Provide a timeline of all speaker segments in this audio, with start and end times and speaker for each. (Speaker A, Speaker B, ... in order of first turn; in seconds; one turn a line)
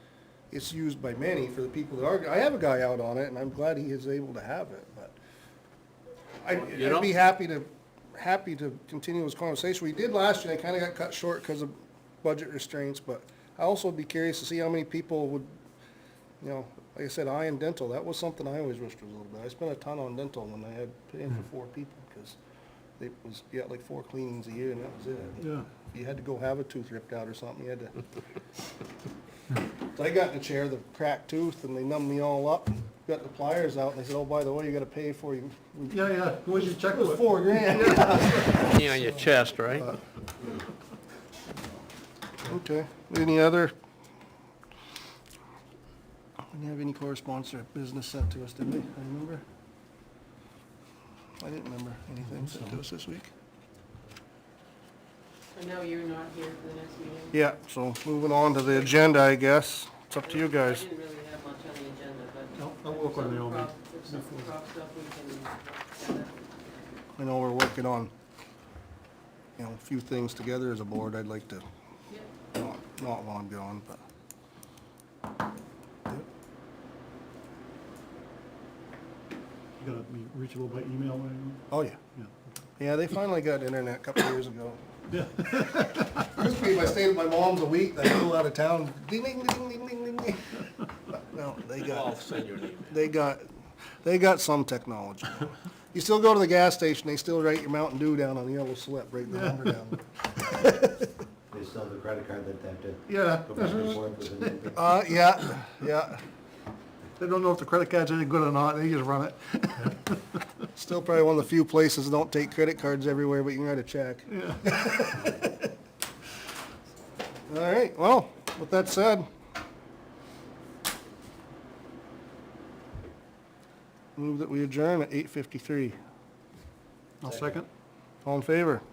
Speaker A: 0.5-5.2
Speaker A: 6.4-15.5
Speaker B: 6.8-7.1
Speaker A: 16.4-22.4
Speaker A: 23.0-27.9
Speaker C: 25.4-25.7
Speaker A: 29.9-36.1
Speaker C: 35.9-38.0
Speaker A: 36.6-39.2
Speaker B: 38.7-39.9
Speaker A: 42.4-43.7
Speaker A: 46.5-49.4
Speaker A: 51.4-53.3
Speaker D: 55.5-57.4
Speaker A: 57.3-60.9
Speaker D: 60.2-66.4
Speaker C: 62.5-64.5
Speaker A: 67.2-68.1
Speaker A: 69.6-71.7
Speaker A: 72.5-74.0
Speaker C: 79.8-82.3
Speaker A: 81.7-82.0
Speaker A: 82.8-84.8
Speaker C: 85.1-86.3
Speaker A: 86.2-92.4
Speaker B: 91.9-93.0
Speaker A: 92.9-93.5
Speaker A: 94.0-101.1
Speaker C: 99.3-99.8
Speaker E: 101.5-104.8
Speaker C: 103.1-104.6
Speaker A: 104.7-106.2
Speaker C: 107.2-110.4
Speaker A: 110.7-115.7
Speaker C: 114.3-115.1
Speaker A: 117.5-119.3
Speaker A: 124.2-126.0
Speaker C: 127.2-127.7
Speaker E: 127.2-127.5
Speaker A: 128.2-128.8